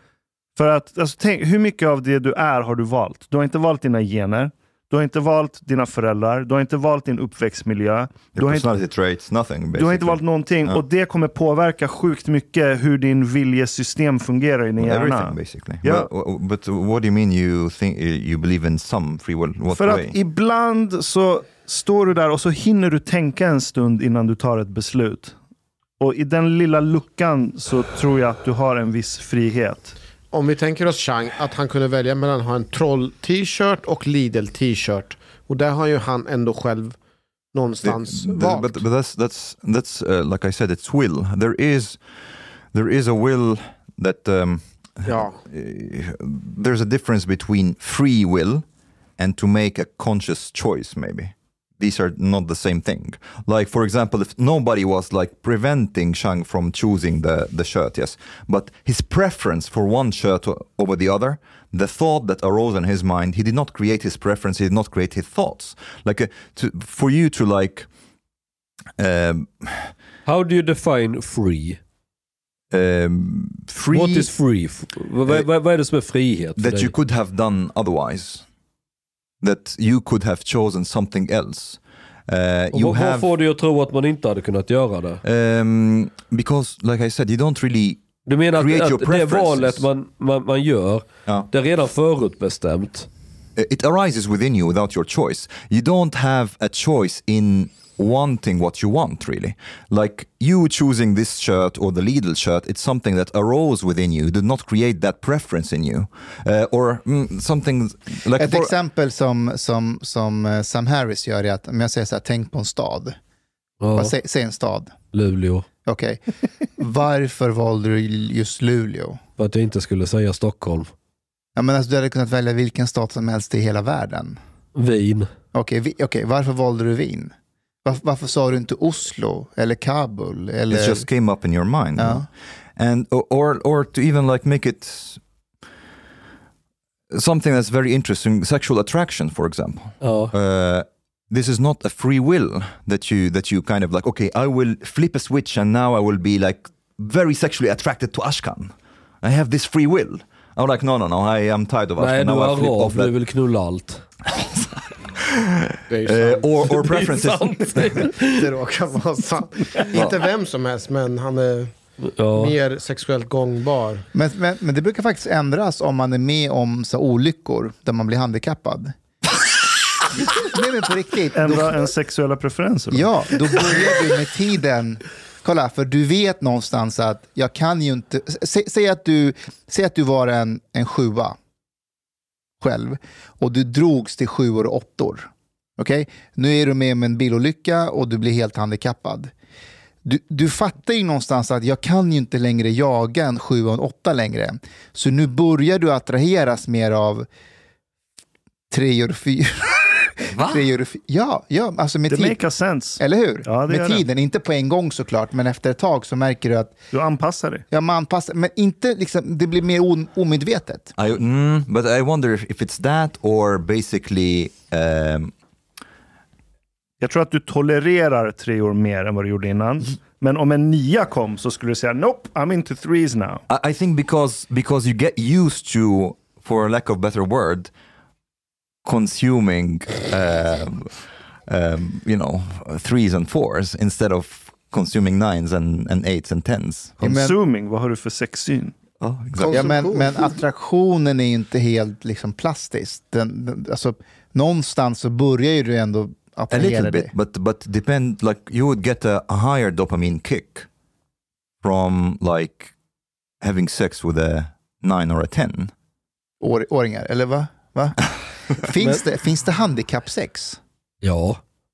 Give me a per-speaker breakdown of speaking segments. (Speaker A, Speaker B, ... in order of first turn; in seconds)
Speaker A: 0.6-8.7, 9.7-16.1, 19.7-25.3, 26.0-29.9, 171.3-173.1, 202.1-204.0, 206.9-207.6, 217.0-223.4, 237.0-238.8
Speaker B: 8.3-10.8, 14.8-20.1, 37.8-42.0, 42.7-48.6, 49.2-67.9, 69.0-69.9, 72.7-74.3, 76.6-78.4, 79.4-83.3, 85.2-89.8, 93.5-108.7, 130.7-135.2, 137.1-153.1, 154.3-154.7, 155.2-157.9, 200.3-200.6, 211.0-215.3, 223.5-227.7, 228.8-230.9, 231.5-237.0, 239.0-239.7, 246.5-250.7, 251.6-252.7, 253.4-255.7
Speaker C: 30.3-37.0, 37.5-38.8, 45.0-45.4, 155.9-157.0, 157.9-161.7, 162.3-164.1, 239.4-240.3
Speaker D: 70.2-71.8, 73.9-76.9, 82.7-85.2, 88.2-93.1, 113.8-114.1, 115.1-115.7, 119.4-120.9, 124.8-125.3, 140.0-140.3, 152.0-154.0, 156.6-158.4, 162.2-162.5, 261.0-261.4
Speaker E: 108.3-113.2, 113.9-114.9, 115.8-116.2, 116.8-119.2, 121.5-124.4, 125.5-127.3, 127.8-131.1, 131.9-132.3, 164.1-168.9, 170.3-171.9, 172.9-181.3, 182.6-189.3, 190.0-197.3, 198.7-202.4, 203.0-206.8, 207.7-210.9, 237.0-237.4, 239.5-247.1, 256.4-258.0, 258.5-260.6